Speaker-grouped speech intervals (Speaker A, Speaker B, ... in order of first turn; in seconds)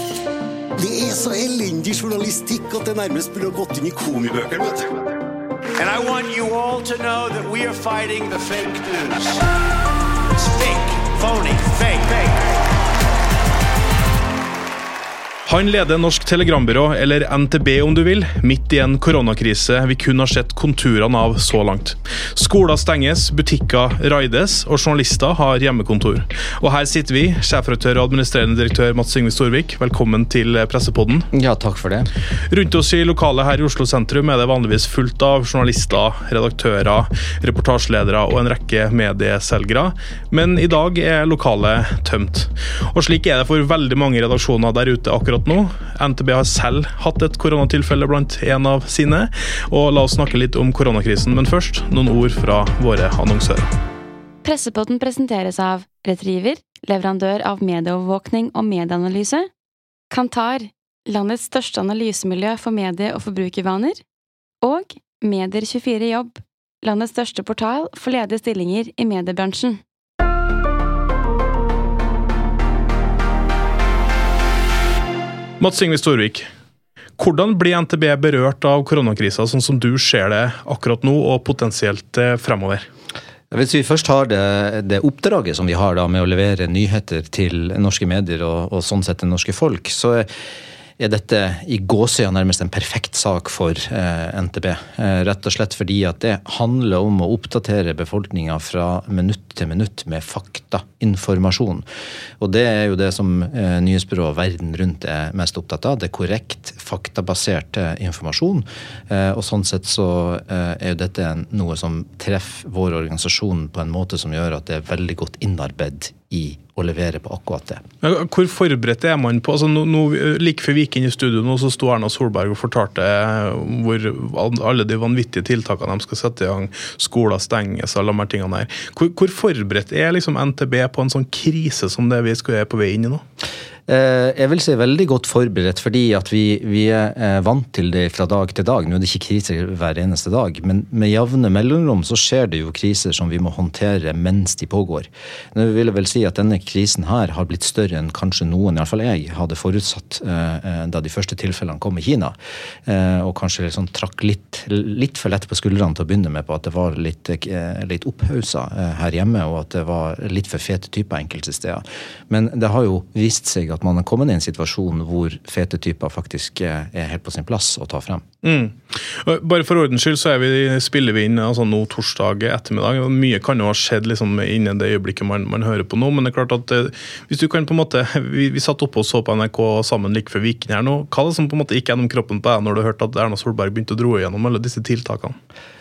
Speaker A: 0.8-5.0
Speaker B: 5.8-9.4, 10.3-12.6
Speaker C: 15.5-31.3, 32.3-53.7, 75.6-76.5, 77.2-82.9, 118.0-133.2, 168.4-185.4
Speaker D: 31.3-32.1, 83.5-90.3, 91.0-101.8, 102.4-117.8, 133.9-168.2
Speaker E: 54.4-59.5, 60.1-64.0, 64.6-69.8